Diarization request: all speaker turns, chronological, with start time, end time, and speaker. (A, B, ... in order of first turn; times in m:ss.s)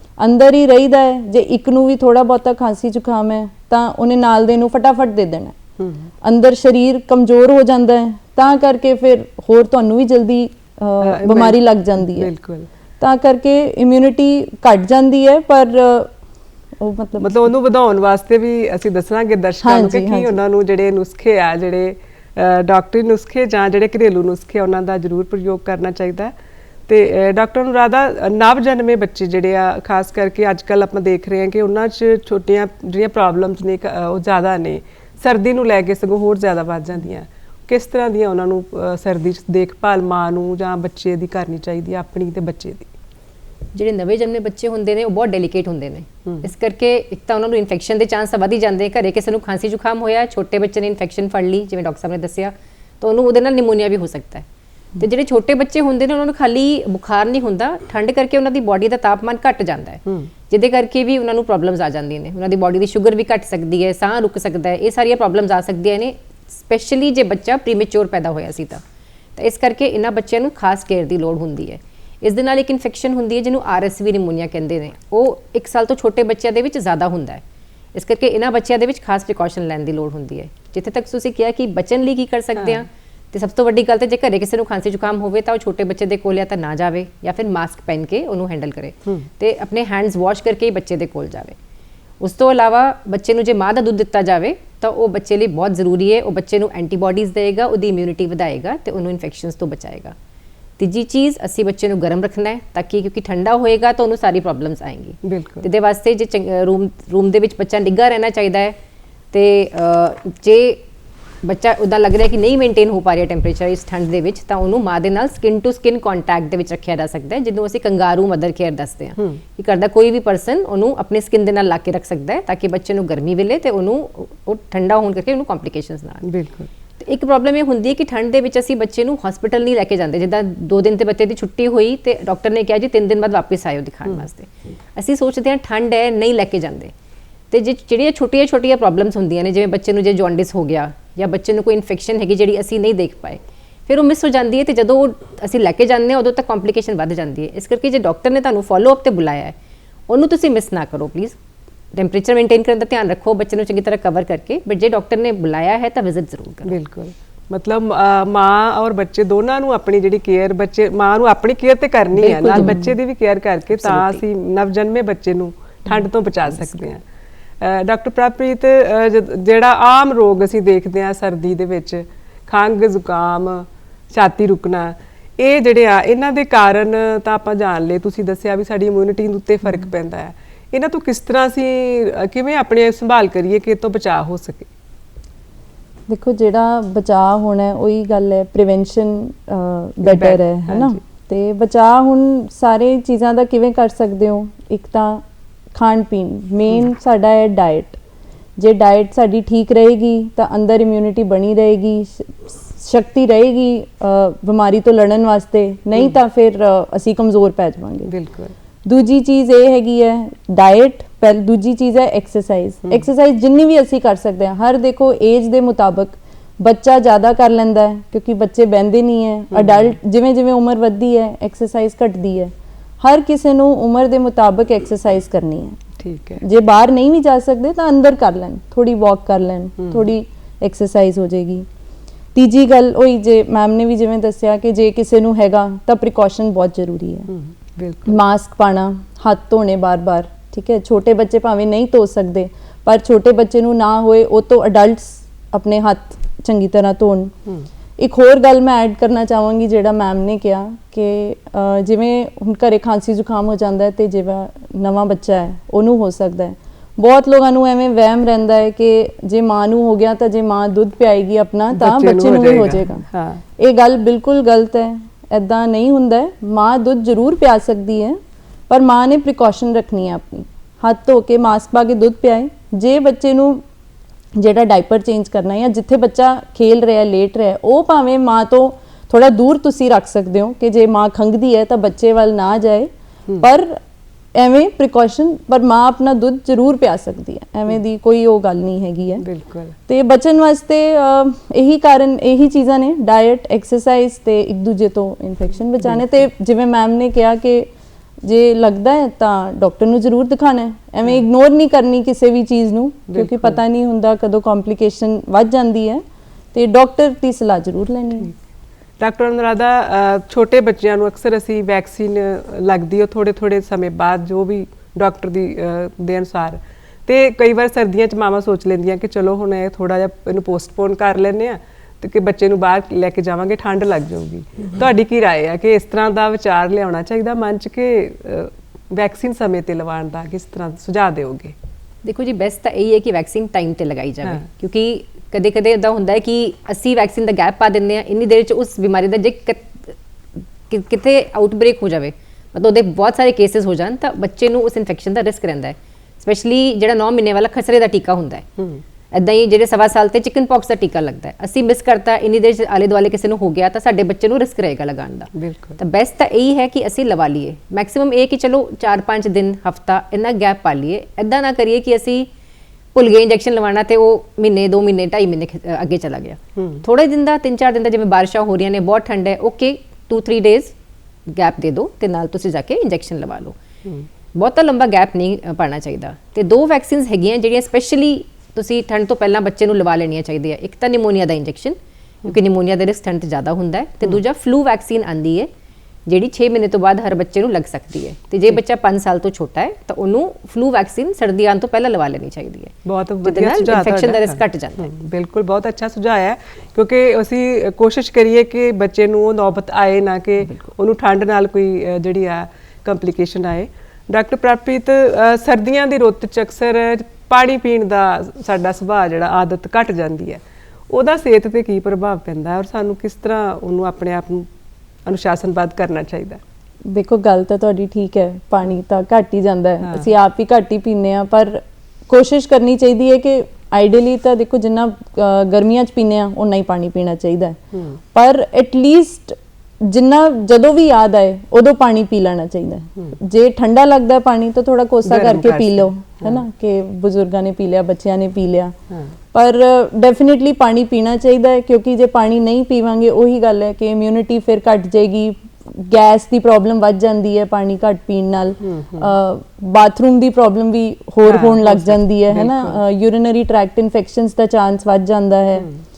0:00.2-0:05.6 A
0:05.8-0:06.1 B
0:06.2-0:12.3 A
0:11.0-0:12.7 B
0:13.0-0:16.1 A
0:16.8-0:17.5 A
0:17.2-0:26.3 B
0:19.6-0:20.4 A
0:26.9-0:42.9 B
0:43.7-0:54.4 C
0:55.0-1:08.8 C
1:09.4-1:17.4 C
1:17.9-1:31.6 C
1:32.2-1:40.1 C
1:40.8-1:48.8 C
1:45.2-1:45.7 B
1:49.3-1:50.8 C
1:51.4-2:06.2 C
2:06.2-2:06.7 B
2:07.0-2:16.9 C
2:17.5-2:29.6 C
2:30.1-2:31.4 C
2:31.9-2:36.8 C
2:36.7-2:47.0 B
2:42.2-2:42.9 C
2:42.4-2:42.9 A
2:43.8-2:44.2 C
2:47.6-3:04.7 B
3:06.1-3:18.0 A
3:10.0-3:11.0 B
3:18.6-3:28.1 A
3:28.1-3:28.5 B
3:28.8-3:45.8 A
3:39.5-3:39.9 B
3:46.0-3:46.4 B
3:46.4-3:51.7 A
3:49.8-3:50.1 B
3:52.4-3:57.3 A
3:57.3-3:58.1 B
3:58.1-4:07.4 A
4:08.0-4:23.0 A
4:21.8-4:23.4 B
4:23.6-4:33.6 A
4:34.4-4:43.8 A
4:44.4-4:49.3 A
4:49.2-4:49.8 B
4:49.9-4:57.7 A
4:58.2-5:06.0 A
5:03.1-5:03.6 B
5:06.5-5:08.3 A
5:09.0-5:31.6 B
5:32.0-5:39.9 C
5:40.7-5:48.4 C
5:48.6-5:48.8 B
5:49.1-6:02.3 C
5:55.3-5:55.8 B
6:02.9-6:10.7 C
6:06.6-6:06.8 B
6:11.3-6:13.6 C
6:14.3-6:25.5 C
6:26.1-6:32.7 C
6:32.8-6:54.5 B
6:33.2-6:34.9 C
6:55.0-6:56.4 B
6:56.8-7:07.6 A
6:59.8-7:00.1 B
7:07.7-7:08.0 B
7:08.1-7:18.8 A
7:15.1-7:16.4 B
7:19.3-7:35.7 A
7:28.6-7:29.1 B
7:31.2-7:32.8 B